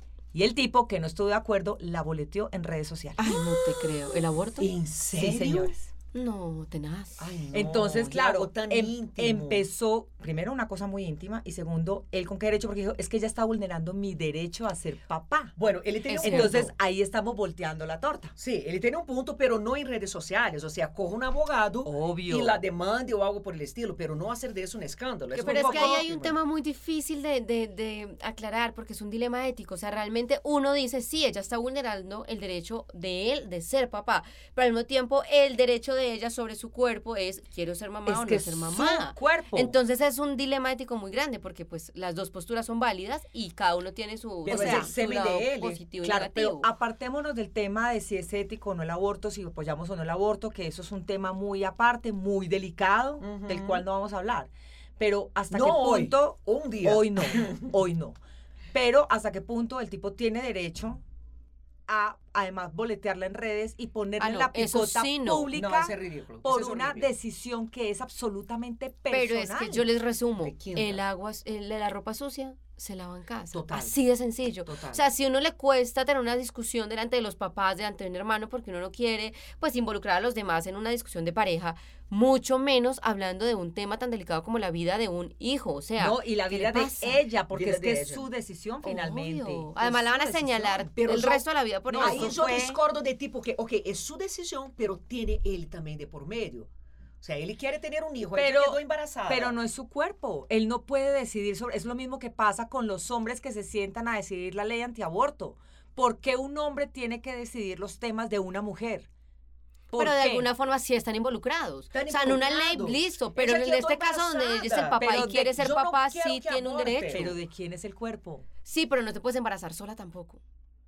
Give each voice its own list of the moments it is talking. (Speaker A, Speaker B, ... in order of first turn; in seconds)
Speaker A: 0.3-3.3, 5.2-5.9, 7.5-15.6, 16.2-18.3, 21.8-22.6, 25.3-26.1, 44.4-44.9, 46.0-58.2, 58.7-61.0, 61.9-69.9, 86.0-90.9, 92.0-92.8, 98.3-109.1, 109.9-110.5, 115.0-115.5, 117.1-118.5
Speaker B: 3.2-4.7, 6.1-7.4, 16.1-16.7, 25.4-46.7, 64.2-65.5, 69.1-87.2, 88.8-92.4, 110.0-117.3, 118.6-120.4
Speaker C: 4.6-5.7, 7.2-9.6, 15.6-16.7, 18.4-26.4, 38.1-39.7, 44.4-45.8, 53.2-53.8, 55.5-57.7, 65.5-67.1, 70.4-71.0, 73.5-73.9, 74.7-75.0, 87.5-88.3, 90.8-96.7, 97.2-99.5, 111.9-117.3